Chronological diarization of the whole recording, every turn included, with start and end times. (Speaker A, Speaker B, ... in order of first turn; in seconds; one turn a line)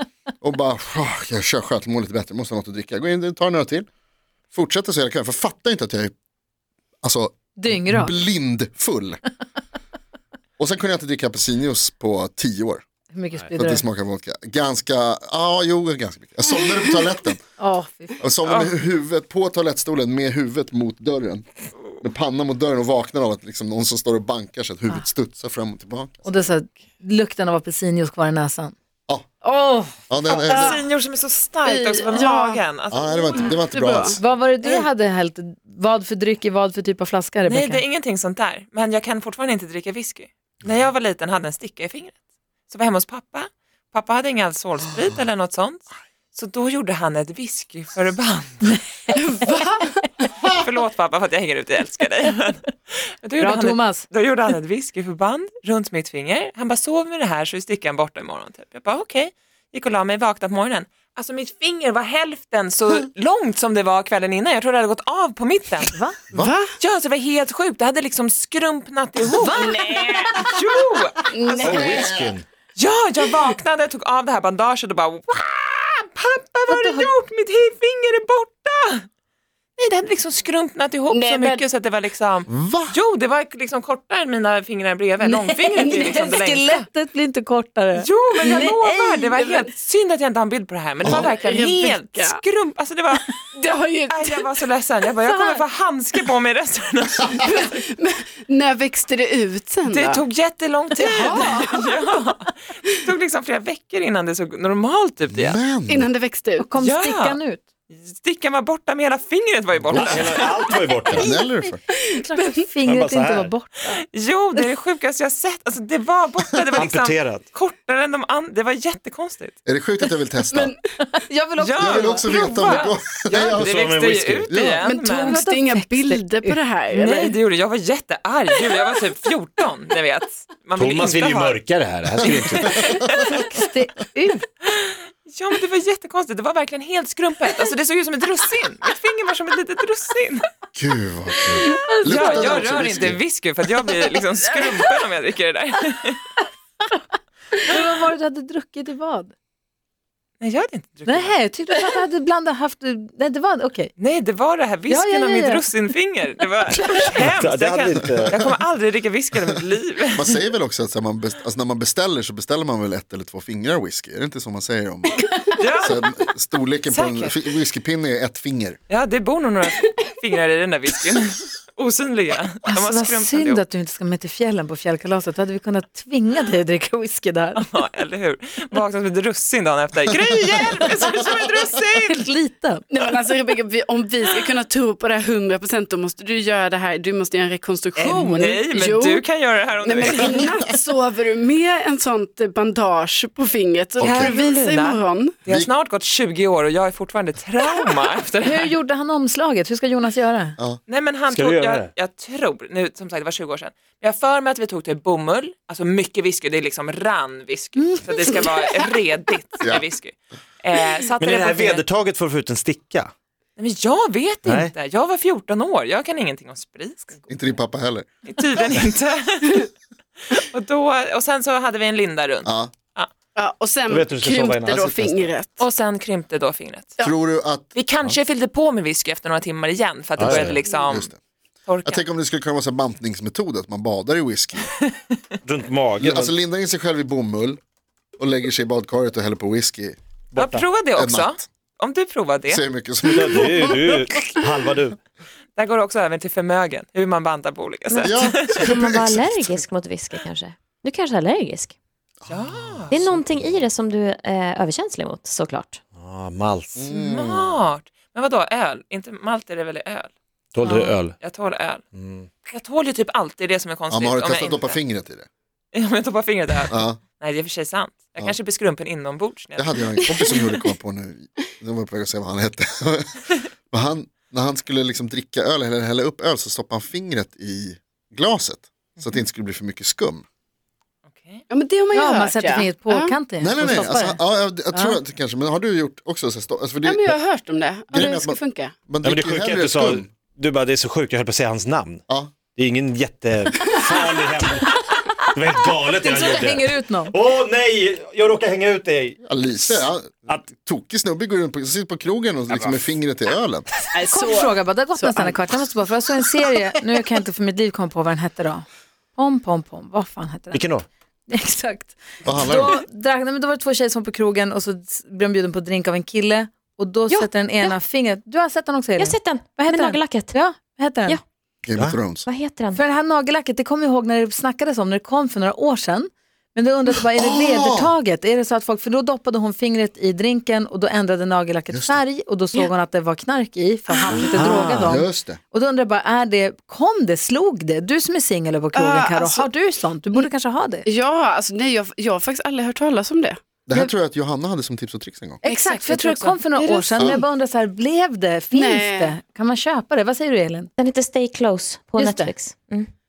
Speaker A: 0.4-3.9
Speaker A: 4.5-6.1
Speaker A: 7.0-9.2
Speaker B: 7.5-8.1
Speaker A: 10.6-12.8
Speaker B: 13.1-13.8
Speaker A: 13.5-17.4
Speaker B: 17.6-18.2
Speaker A: 18.2-26.2
Speaker C: 18.4-18.8
Speaker B: 26.2-28.8
Speaker B: 29.4-29.9
Speaker A: 30.1-30.8
Speaker D: 30.3-30.8
Speaker C: 30.5-33.5
Speaker D: 31.6-32.6
Speaker A: 32.9-34.2
Speaker D: 33.4-34.9
Speaker B: 34.2-37.8
Speaker C: 37.5-48.9
Speaker D: 49.1-50.2
Speaker C: 50.5-52.7
Speaker C: 53.2-66.0
Speaker B: 53.4-54.1
Speaker D: 66.3-66.7
Speaker C: 66.8-71.8
Speaker B: 69.4-70.5
Speaker D: 69.5-70.4
Speaker D: 71.3-72.3
Speaker E: 71.6-72.4
Speaker A: 71.8-72.3
Speaker C: 72.8-79.1
Speaker B: 76.7-77.1
Speaker C: 79.8-86.8
Speaker D: 81.1-81.6
Speaker A: 82.5-83.0
Speaker B: 85.2-89.3
Speaker C: 88.0-93.3
Speaker D: 89.4-89.7
Speaker A: 91.0-91.3
Speaker D: 91.0-92.4
Speaker D: 93.1-94.6
Speaker C: 94.1-97.4
Speaker D: 95.3-95.6
Speaker D: 97.4-100.2
Speaker C: 99.8-105.6
Speaker D: 101.0-101.9
Speaker A: 105.3-106.1
Speaker D: 105.9-106.7
Speaker B: 106.6-107.6
Speaker C: 106.8-107.4
Speaker C: 107.9-110.4
Speaker E: 109.9-111.3
Speaker A: 111.1-111.8
Speaker B: 111.2-114.0
Speaker D: 112.1-112.6
Speaker E: 112.8-113.5
Speaker C: 113.9-119.6
Speaker E: 116.8-117.4
Speaker A: 119.7-120.7
Speaker D: 120.5-120.8
Speaker B: 121.1-122.3
Speaker C: 121.6-125.4
Speaker A: 121.8-123.7
Speaker E: 123.4-124.6
Speaker A: 124.5-124.8
Speaker D: 124.8-127.3
Speaker B: 125.0-126.6
Speaker C: 126.9-131.6
Speaker E: 130.8-132.7
Speaker A: 132.2-133.1
Speaker C: 132.2-133.3
Speaker B: 133.1-134.5
Speaker C: 134.8-140.4
Speaker A: 140.8-143.2
Speaker B: 141.5-142.9
Speaker C: 142.0-146.3
Speaker B: 147.6-149.3
Speaker C: 150.4-151.4
Speaker B: 151.1-153.9
Speaker C: 154.0-160.3
Speaker B: 154.9-155.7
Speaker E: 156.9-158.4
Speaker A: 160.1-168.8
Speaker C: 165.6-166.1
Speaker C: 166.9-167.4
Speaker C: 168.9-173.6
Speaker B: 172.7-177.7
Speaker C: 177.6-182.3
Speaker B: 182.1-182.8
Speaker D: 182.9-189.3
Speaker C: 188.0-190.5
Speaker D: 189.8-195.4
Speaker A: 194.0-194.3
Speaker C: 194.0-198.7
Speaker B: 198.4-200.6
Speaker C: 200.9-211.8
Speaker E: 201.3-201.9
Speaker E: 211.1-213.1
Speaker C: 213.6-217.3
Speaker E: 214.4-214.7
Speaker A: 217.3-218.8
Speaker C: 218.3-219.7
Speaker C: 220.3-223.1
Speaker A: 222.4-222.7
Speaker D: 223.4-225.7
Speaker E: 223.9-224.9
Speaker A: 224.7-225.3
Speaker C: 225.6-226.9
Speaker A: 227.0-227.7
Speaker C: 227.7-231.2
Speaker E: 230.2-230.6
Speaker A: 230.9-231.2
Speaker C: 231.7-232.1
Speaker A: 231.8-234.7
Speaker E: 235.4-236.3
Speaker A: 236.0-237.6
Speaker A: 238.2-240.0
Speaker E: 240.3-240.7
Speaker C: 240.4-242.7
Speaker A: 241.0-241.4
Speaker A: 242.5-244.0
Speaker E: 243.1-245.0
Speaker C: 245.6-248.7
Speaker F: 247.9-251.8
Speaker A: 248.0-249.7
Speaker C: 252.3-253.0
Speaker F: 252.9-255.8
Speaker E: 255.9-256.8
Speaker A: 256.8-257.6
Speaker C: 256.9-260.1
Speaker E: 260.5-261.2
Speaker B: 260.6-261.0
Speaker C: 261.2-261.8
Speaker E: 261.9-262.3
Speaker C: 262.5-264.8
Speaker A: 263.9-265.3
Speaker C: 265.7-270.5
Speaker A: 266.7-267.0
Speaker A: 269.6-280.2
Speaker D: 270.0-270.3
Speaker C: 281.1-281.4
Speaker D: 281.5-283.1
Speaker B: 281.9-285.0
Speaker A: 283.4-287.2
Speaker D: 286.8-288.8
Speaker A: 287.9-290.1
Speaker E: 289.0-300.5
Speaker B: 296.0-297.1
Speaker A: 299.2-303.7
Speaker E: 302.5-302.8
Speaker D: 303.9-305.4
Speaker B: 304.1-310.7
Speaker E: 310.5-310.9
Speaker B: 311.3-321.2
Speaker A: 312.2-312.8
Speaker F: 317.1-317.7
Speaker F: 319.0-320.4
Speaker A: 321.6-322.3
Speaker F: 322.2-322.8
Speaker B: 322.7-340.9
Speaker A: 327.2-327.9
Speaker A: 331.7-332.0
Speaker D: 333.9-334.4
Speaker E: 334.2-335.0
Speaker A: 334.8-335.4
Speaker D: 338.7-339.5
Speaker D: 340.9-343.9
Speaker A: 343.7-345.4
Speaker D: 345.4-347.0
Speaker B: 345.4-350.7
Speaker A: 347.0-347.2
Speaker D: 348.5-349.1
Speaker F: 350.8-352.9
Speaker B: 352.0-352.3